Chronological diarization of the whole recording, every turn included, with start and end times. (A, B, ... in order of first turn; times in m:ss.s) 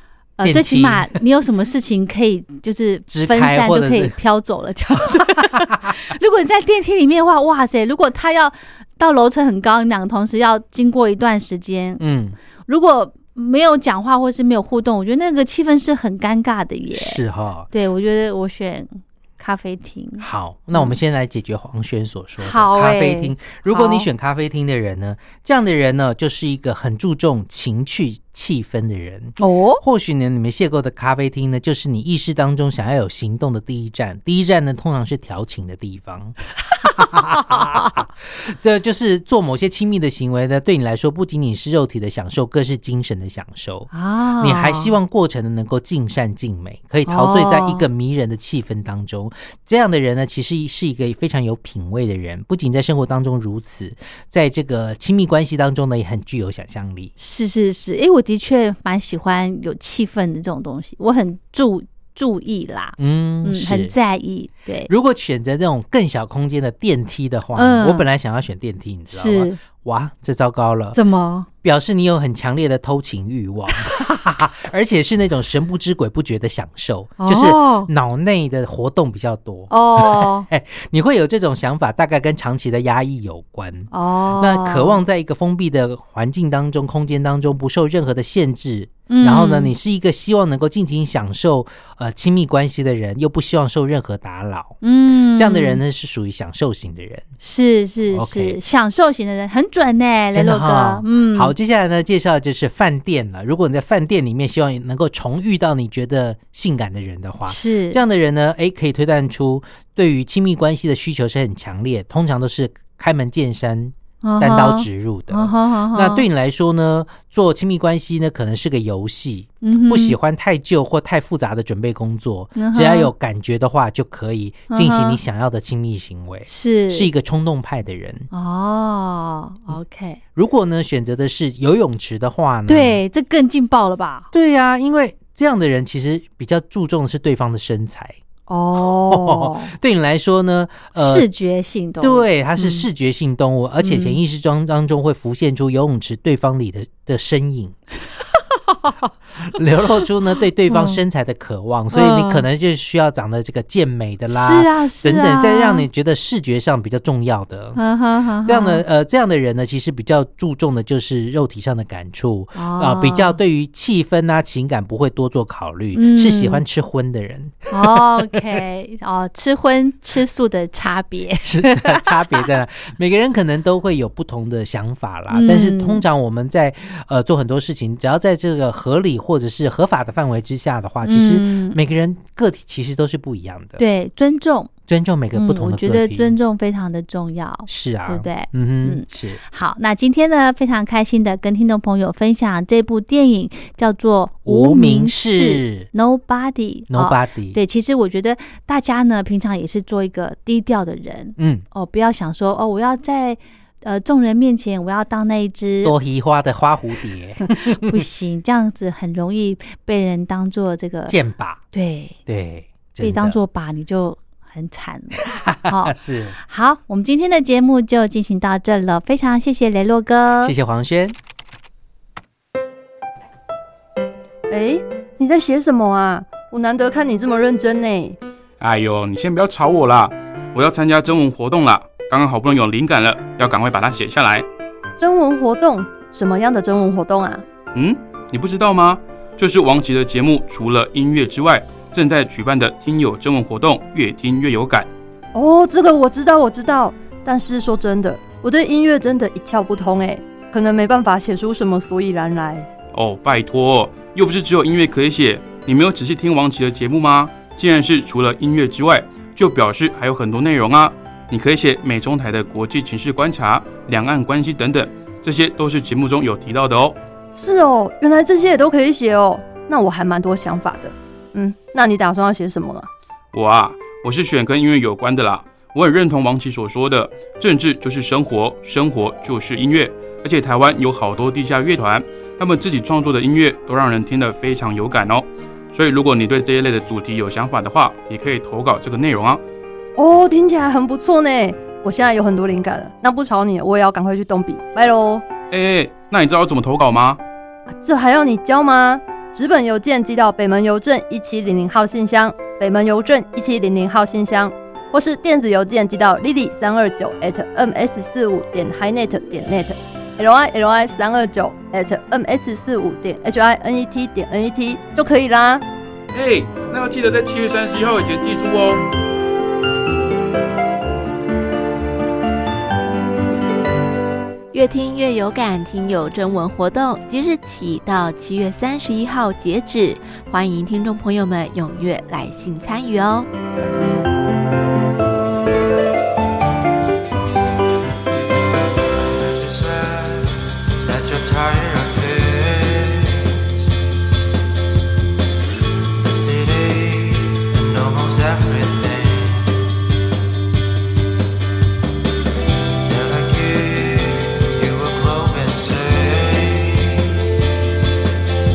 0:00.4-0:12.0 A
0:00.4-0:01.2 B
0:03.1-0:04.1 B
0:05.0-0:05.9 B
0:12.0-0:12.4 B
0:12.7-0:21.0 A
0:16.9-0:17.7 B
0:20.2-0:57.1 B
0:22.4-0:24.1 A
0:29.4-0:29.8 A
0:43.9-0:45.0 A
0:47.0-0:47.8 A
0:57.2-1:04.9 A
1:03.0-1:03.9 B
1:04.9-1:11.0 B
1:07.5-1:08.0 A
1:09.1-1:09.6 A
1:10.9-1:11.5 A
1:11.6-1:34.8 B
1:17.2-1:17.9 A
1:19.7-1:20.5 A
1:23.9-1:25.0 A
1:29.1-1:29.7 A
1:34.8-1:35.8 A
1:35.3-1:37.2 B
1:37.4-1:41.5 A
1:38.1-1:38.6 B
1:40.3-2:08.3 B
1:47.4-1:48.0 A
1:54.2-1:56.2 A
1:59.6-2:00.2 A
2:02.6-2:03.1 A
2:04.7-2:05.2 A
2:06.5-2:07.1 A
2:08.3-2:10.2 A
2:10.4-2:13.0 B
2:12.7-2:14.3 A
2:14.3-2:18.2 B
2:18.5-2:19.7 A
2:18.8-2:21.3 B
2:21.0-2:22.8 A
2:22.0-2:27.8 B
2:23.8-2:24.2 A
2:29.4-2:37.8 B
2:30.7-2:31.0 A
2:31.9-2:32.5 A
2:34.3-2:35.9 A
2:37.8-2:38.8 A
2:38.4-2:48.5 B
2:42.5-2:43.4 A
2:45.9-2:46.6 A
2:47.7-2:52.4 A
2:51.4-3:03.8 B
2:55.3-2:56.0 A
3:01.0-3:01.8 A
3:03.8-3:04.7 A
3:04.9-3:06.4 B
3:05.3-3:25.9 A
3:07.7-3:09.4 B
3:14.4-3:15.9 B
3:16.9-3:17.6 B
3:21.4-3:21.6 B
3:25.8-3:28.0 B
3:27.4-3:31.1 A
3:31.1-3:31.6 B
3:31.7-3:32.2 A
3:32.2-3:33.4 B
3:33.0-3:40.5 A
3:35.2-3:36.3 B
3:40.4-3:41.1 B
3:44.5-3:48.2 C
3:48.6-3:54.4 D
3:55.0-3:57.4 C
3:57.7-4:04.9 D
4:05.3-4:12.7 C
4:12.9-4:27.0 D
4:27.3-4:32.9 C
4:33.3-4:49.4 D
4:50.0-4:55.2 C
4:55.5-4:57.2 D
4:57.7-5:15.6 C
5:16.1-5:18.8 D
5:24.5-5:33.3 E
5:38.9-5:43.4 F
5:45.9-5:49.6 F
5:52.8-5:57.0 F